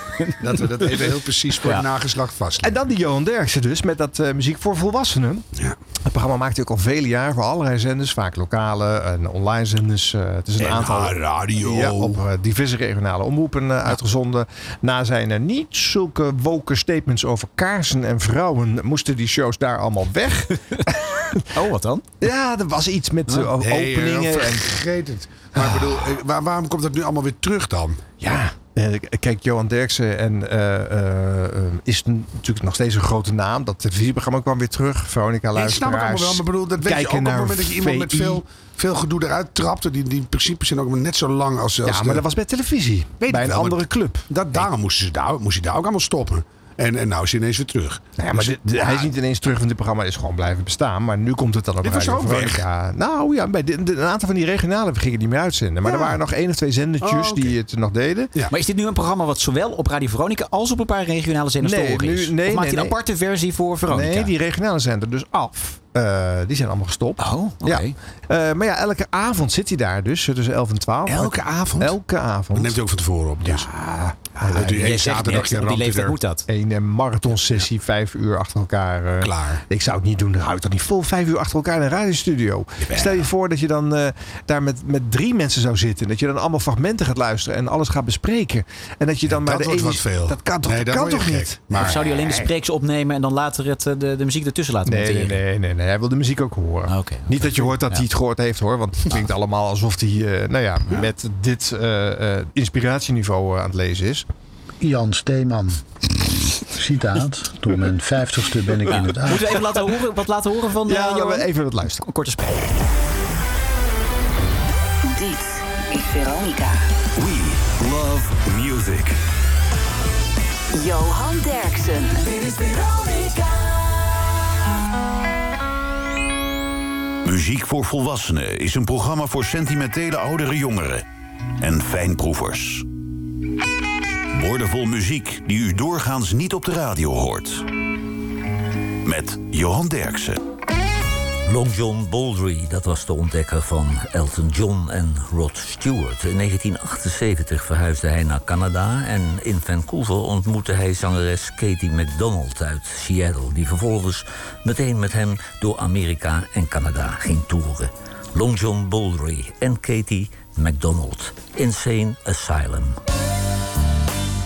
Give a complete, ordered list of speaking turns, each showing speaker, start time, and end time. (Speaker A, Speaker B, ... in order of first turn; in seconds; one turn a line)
Speaker A: 0.4-2.8
Speaker B: 2.6-5.5
Speaker B: 6.1-20.9
Speaker A: 10.6-12.2
Speaker C: 21.5-22.1
Speaker B: 22.2-24.7
Speaker A: 23.6-28.0
Speaker B: 28.2-38.4
Speaker A: 35.5-42.2
Speaker B: 41.9-44.3
Speaker A: 43.2-49.1
Speaker B: 48.2-58.3
Speaker A: 51.8-52.6
Speaker A: 55.8-56.2
Speaker A: 57.0-57.6
Speaker C: 58.5-64.3
Speaker B: 61.6-63.0
Speaker B: 63.9-72.8
Speaker C: 67.2-67.9
Speaker A: 71.1-71.9
Speaker A: 72.5-73.7
Speaker B: 73.4-75.0
Speaker A: 74.5-76.2
Speaker C: 74.6-76.5
Speaker B: 76.5-92.3
Speaker A: 79.2-79.6
Speaker A: 82.8-83.3
Speaker A: 89.3-92.0
Speaker C: 91.7-95.4
Speaker B: 94.9-104.2
Speaker C: 96.9-98.0
Speaker D: 104.8-105.8
Speaker D: 106.7-109.5
Speaker C: 108.9-112.7
Speaker B: 110.9-112.0
Speaker E: 115.0-116.9
Speaker F: 117.2-118.4
Speaker E: 120.7-123.5
Speaker F: 127.2-131.0
Speaker F: 131.6-132.8
Speaker F: 134.3-137.6
Speaker F: 139.1-140.4
Speaker G: 141.5-162.9